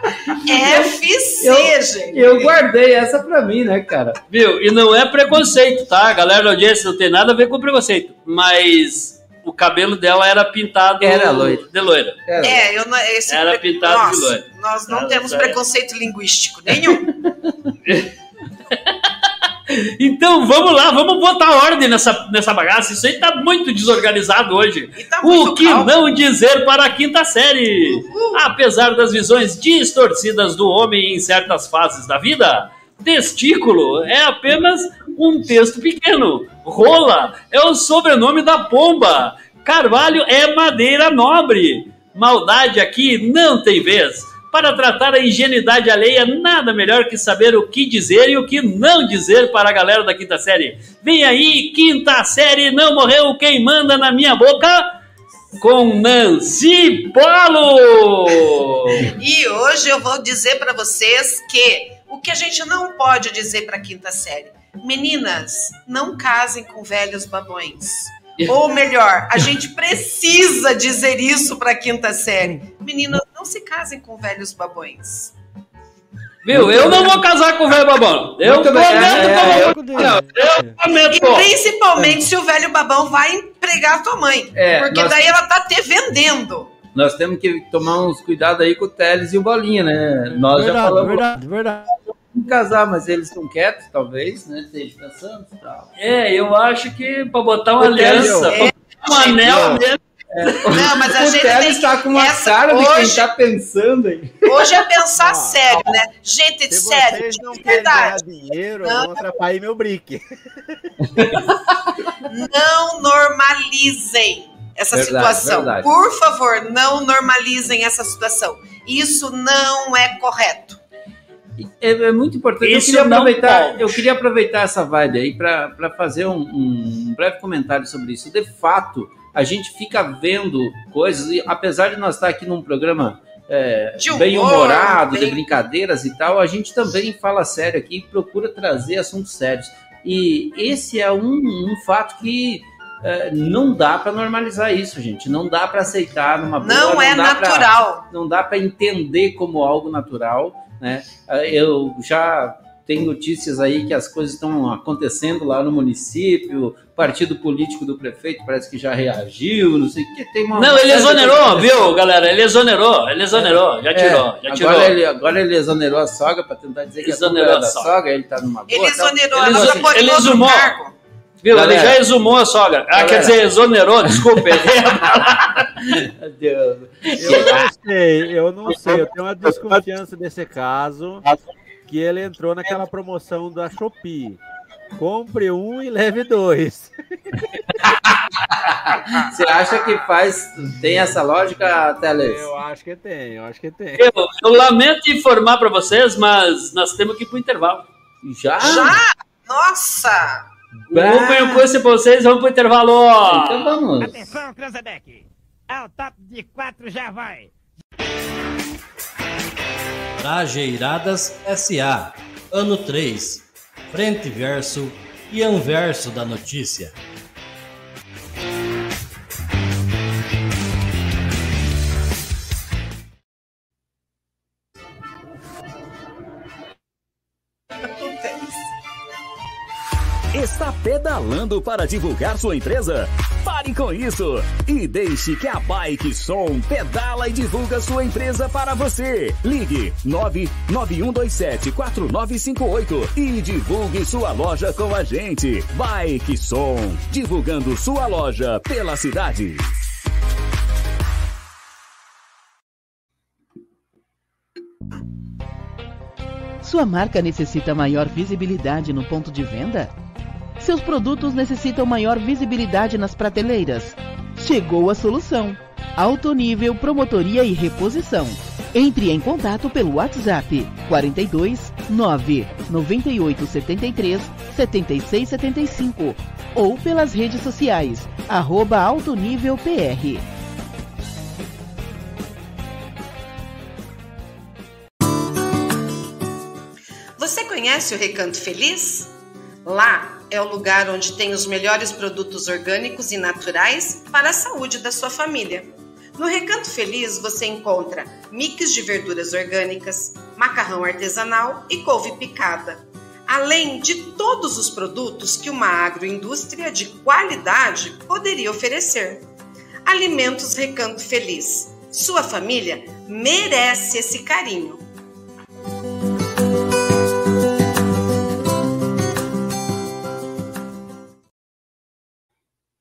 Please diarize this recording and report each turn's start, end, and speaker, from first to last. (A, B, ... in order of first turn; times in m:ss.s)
0:00.3-0:04.2 A
0:00.4-0:02.5 B
0:04.3-0:12.2 C
0:11.0-0:11.6 A
0:12.3-0:12.7 A
0:12.4-0:17.1 B
0:13.3-0:15.6 C
0:17.3-0:17.7 A
0:19.7-0:54.9 C
0:25.0-0:26.0 B
0:27.8-0:28.4 B
0:55.6-0:59.1 C
0:59.2-1:15.3 B
1:16.4-1:21.5 C
1:16.5-1:17.2 A
1:18.4-1:20.2 A
1:19.0-1:20.8 D
1:21.1-1:26.7 B
1:24.5-1:25.3 A
1:27.0-1:31.2 A
1:30.3-1:32.0 D
1:32.3-1:35.9 A
1:36.0-1:40.6 C
1:37.8-1:38.5 A
1:37.9-1:38.5 E
1:38.5-1:39.8 B
1:40.3-1:44.4 A
1:40.7-1:43.3 B
1:44.5-1:48.2 B
1:45.2-1:45.8 E
1:46.7-1:50.9 E
1:48.8-1:49.2 B
1:51.1-1:51.5 A
1:52.3-2:00.8 B
1:54.9-1:55.9 A
2:01.6-2:41.9 A
2:02.6-2:04.1 C
2:14.0-2:15.4 B
2:26.6-2:28.0 B
2:40.6-2:45.0 C
2:43.3-2:50.0 A
2:47.0-2:47.9 C
2:48.7-2:51.0 B
2:49.3-2:50.8 C
2:51.4-2:55.7 C
2:51.5-2:52.0 A
2:53.0-2:53.4 A
2:55.8-2:57.7 A
2:57.2-3:01.2 E
3:01.9-3:04.4 E
3:05.0-3:07.0 E
3:08.7-3:12.5 A
3:12.2-3:14.1 E
3:14.0-3:17.9 C
3:18.2-3:19.0 A
3:18.6-3:20.4 B
3:20.9-3:21.6 A
3:20.9-3:23.7 C
3:23.3-3:24.1 A
3:24.0-3:27.5 F
3:30.2-3:36.9 G
3:47.8-3:48.6 B
3:50.3-4:09.7 H
4:16.6-4:19.9 I
4:20.6-4:40.2 I
4:47.2-4:49.1 B
4:49.6-5:09.2 B
5:09.9-5:14.8 B